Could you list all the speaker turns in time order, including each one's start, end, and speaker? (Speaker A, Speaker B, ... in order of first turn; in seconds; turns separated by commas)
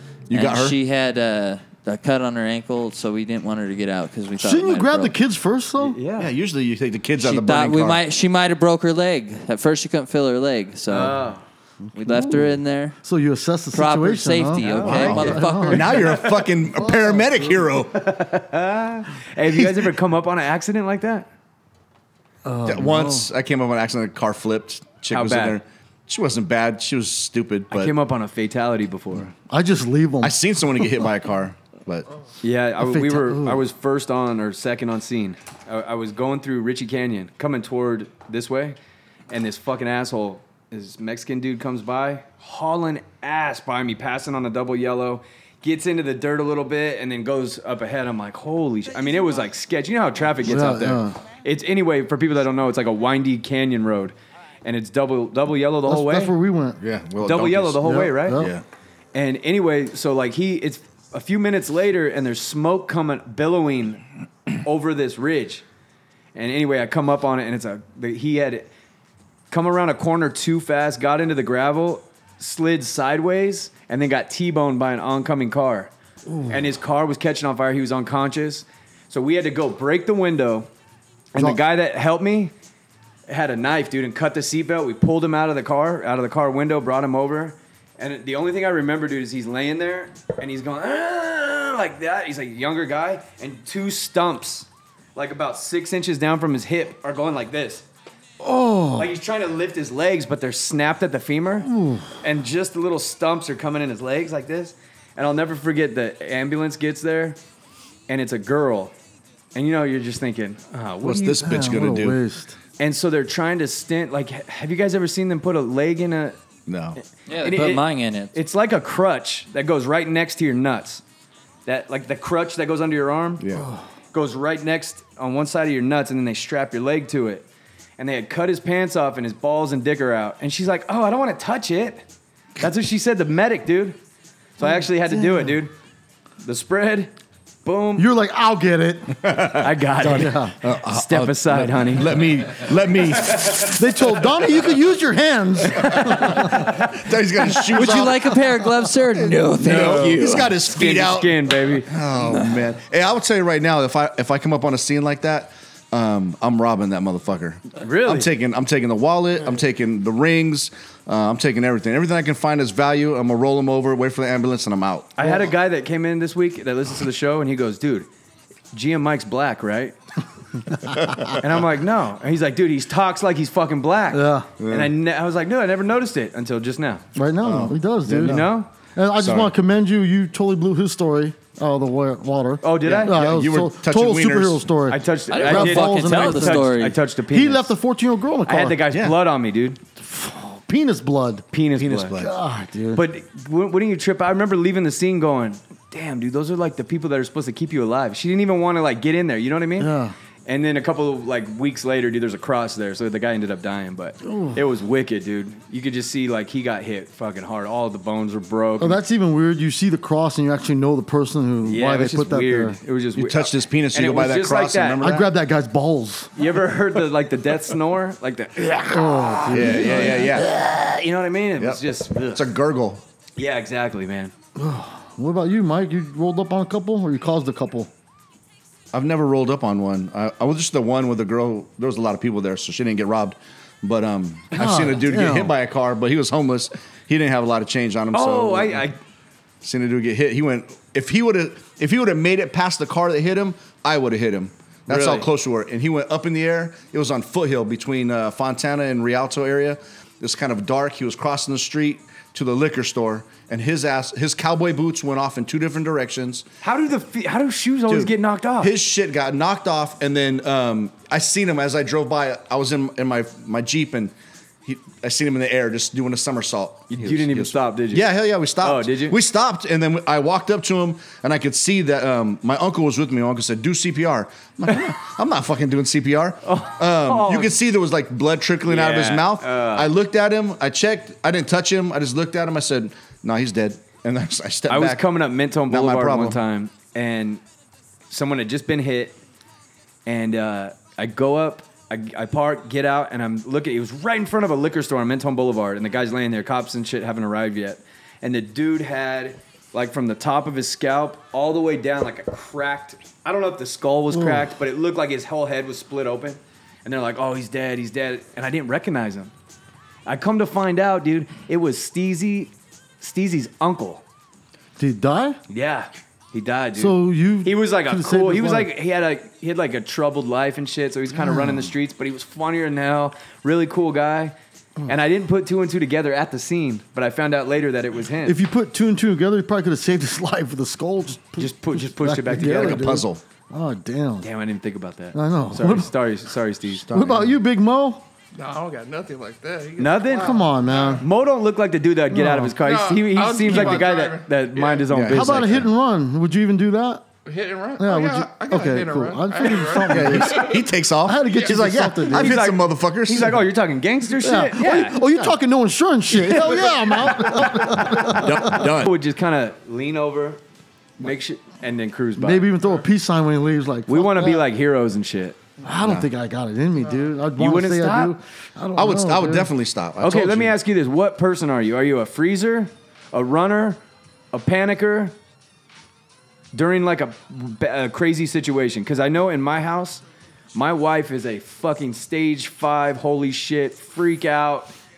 Speaker A: 0.3-0.8, Speaker B: 0.3-5.1, Speaker C: 4.4-6.0, Speaker D: 5.8-6.3, Speaker A: 6.2-8.0, Speaker B: 7.2-11.2, Speaker D: 10.9-11.4, Speaker C: 11.9-16.1, Speaker B: 11.9-12.9, Speaker B: 13.7-16.1, Speaker D: 14.6-16.0, Speaker A: 14.8-17.9, Speaker C: 16.7-17.6, Speaker D: 17.9-21.3, Speaker C: 22.4-23.3, Speaker A: 22.6-27.9, Speaker D: 25.1-25.6, Speaker D: 27.7-29.3, Speaker C: 29.4-30.8, Speaker A: 30.2-32.1, Speaker D: 32.4-38.8, Speaker C: 32.8-33.6, Speaker D: 39.3-56.3, Speaker C: 50.4-51.2, Speaker C: 55.9-56.8, Speaker A: 56.8-58.6, Speaker D: 57.2-58.4, Speaker C: 57.8-58.6, Speaker D: 59.1-64.0, Speaker D: 64.6-65.6, Speaker D: 66.3-68.7, Speaker D: 69.5-75.9, Speaker C: 76.3-76.6, Speaker D: 76.5-80.7, Speaker D: 81.3-82.5, Speaker D: 83.3-97.8, Speaker C: 98.4-99.1, Speaker D: 98.9-101.7, Speaker C: 101.6-102.1, Speaker D: 102.2-107.4, Speaker D: 108.1-108.9, Speaker D: 109.5-111.5, Speaker A: 111.0-112.2, Speaker C: 111.4-112.6, Speaker D: 112.8-116.4, Speaker A: 116.7-117.0, Speaker D: 117.0-121.0, Speaker B: 117.3-118.3, Speaker D: 121.7-123.4, Speaker A: 123.4-123.7, Speaker D: 124.1-127.5, Speaker D: 128.0-132.0, Speaker D: 132.6-134.0, Speaker D: 134.6-135.7, Speaker C: 134.6-135.6, Speaker D: 136.4-137.1, Speaker D: 137.6-138.1, Speaker C: 138.0-140.6, Speaker A: 139.2-139.7, Speaker D: 139.6-142.1, Speaker A: 140.6-144.1, Speaker C: 143.6-146.8, Speaker A: 145.9-148.3, Speaker B: 147.5-150.6, Speaker A: 149.2-165.4, Speaker D: 149.6-151.9, Speaker B: 152.2-152.6, Speaker D: 157.8-158.3, Speaker D: 165.2-168.1, Speaker D: 168.7-169.9, Speaker D: 171.3-177.0, Speaker C: 174.1-174.5, Speaker A: 174.6-174.9, Speaker C: 177.1-178.4, Speaker A: 177.4-178.5, Speaker D: 178.2-178.7, Speaker C: 178.9-188.8, Speaker A: 179.2-179.5, Speaker D: 182.6-183.2, Speaker A: 182.8-184.7, Speaker D: 184.9-187.7, Speaker B: 185.3-187.0, Speaker D: 188.4-189.8, Speaker A: 188.9-189.2, Speaker C: 190.0-191.4, Speaker D: 191.5-192.1, Speaker A: 191.8-192.3, Speaker C: 192.1-193.0, Speaker D: 192.9-199.9, Speaker C: 199.8-200.1, Speaker D: 200.5-209.0, Speaker C: 204.2-204.6, Speaker C: 208.8-212.8, Speaker D: 211.6-215.1, Speaker A: 213.2-215.3, Speaker C: 215.0-216.3, Speaker D: 216.3-222.4, Speaker C: 218.8-220.5, Speaker A: 219.5-220.5, Speaker A: 222.3-223.0, Speaker D: 223.4-224.3, Speaker C: 224.6-227.9, Speaker A: 228.9-238.9, Speaker C: 234.5-235.5, Speaker D: 238.1-239.0, Speaker A: 239.6-256.4, Speaker D: 244.9-245.3, Speaker D: 256.6-258.7, Speaker A: 257.9-264.1, Speaker A: 264.6-285.1, Speaker D: 266.9-269.2, Speaker D: 276.4-277.5, Speaker D: 278.7-279.9, Speaker D: 284.7-287.4, Speaker A: 285.7-286.4, Speaker D: 288.1-289.2, Speaker D: 290.1-309.3, Speaker C: 304.1-304.5, Speaker D: 310.1-314.0, Speaker C: 314.8-315.4, Speaker D: 315.5-324.3, Speaker C: 316.8-318.7, Speaker C: 321.1-321.7, Speaker D: 324.9-328.4, Speaker C: 328.2-334.3, Speaker D: 331.4-332.9, Speaker A: 332.4-333.2, Speaker D: 334.2-336.8, Speaker C: 335.1-335.9, Speaker A: 336.8-337.4, Speaker C: 336.9-338.0, Speaker E: 338.4-341.0, Speaker D: 339.8-340.4, Speaker C: 340.1-341.0, Speaker D: 341.0-345.6, Speaker C: 342.1-342.6, Speaker E: 342.6-344.9, Speaker C: 343.5-343.8, Speaker A: 344.9-345.7, Speaker C: 345.1-347.1, Speaker E: 347.2-350.6, Speaker C: 347.8-352.4, Speaker A: 349.9-353.4, Speaker D: 352.1-355.0, Speaker C: 354.2-358.7, Speaker D: 356.1-357.2, Speaker D: 358.1-360.4, Speaker A: 358.1-358.9, Speaker D: 361.0-362.5, Speaker C: 362.2-364.4, Speaker D: 363.9-365.4, Speaker C: 365.6-369.5, Speaker A: 365.8-366.1, Speaker D: 367.4-368.1, Speaker A: 368.7-370.6, Speaker D: 370.0-373.8, Speaker D: 374.3-375.1, Speaker D: 376.5-380.0, Speaker D: 380.5-384.7